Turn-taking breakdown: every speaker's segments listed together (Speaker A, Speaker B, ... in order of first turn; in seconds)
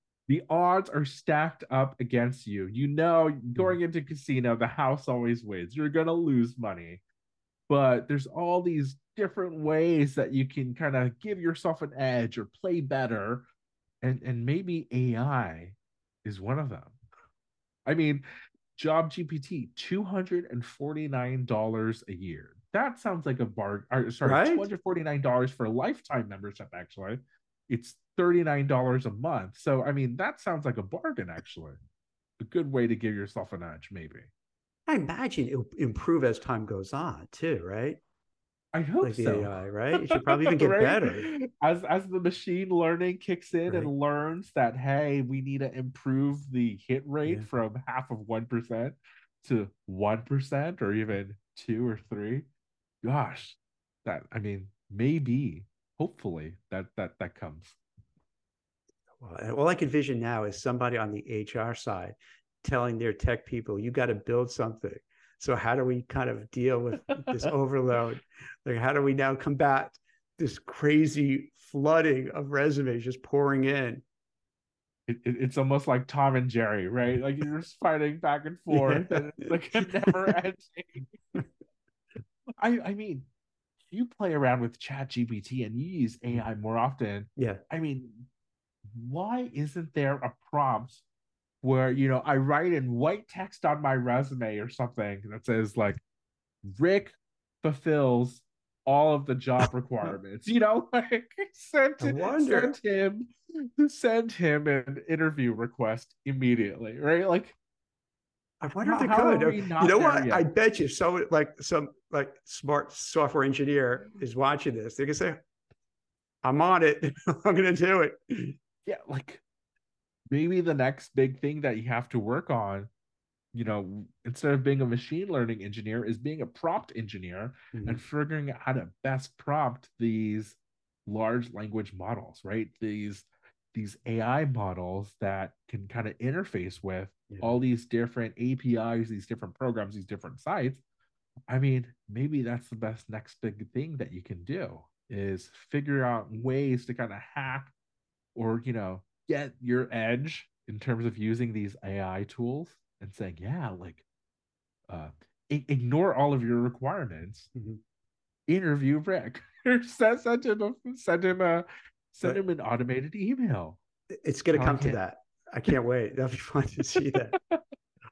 Speaker A: 0.3-7.0, 7.7-13.5, 14.0-17.0, 17.9-31.8, 32.4-34.3, 38.7-52.5, 53.0-57.8, 75.1-81.2, 82.6-83.3, 83.9-88.3, 88.9-91.0, 91.6-96.0, 96.6-107.6, 108.8-110.5, 118.8-119.4, 120.3-122.9, 123.5-140.8, 141.5-147.7, 148.3-154.1, 154.9-157.5, 158.5-163.8, 164.5-165.0
Speaker B: 24.2-24.7, 34.9-38.0, 39.0-41.2, 59.2-74.0, 78.7-79.2, 87.4-87.6, 102.0-102.8, 108.6-115.4, 116.4-118.6, 127.7-128.0, 137.3-137.6, 157.6-157.8, 164.1-167.3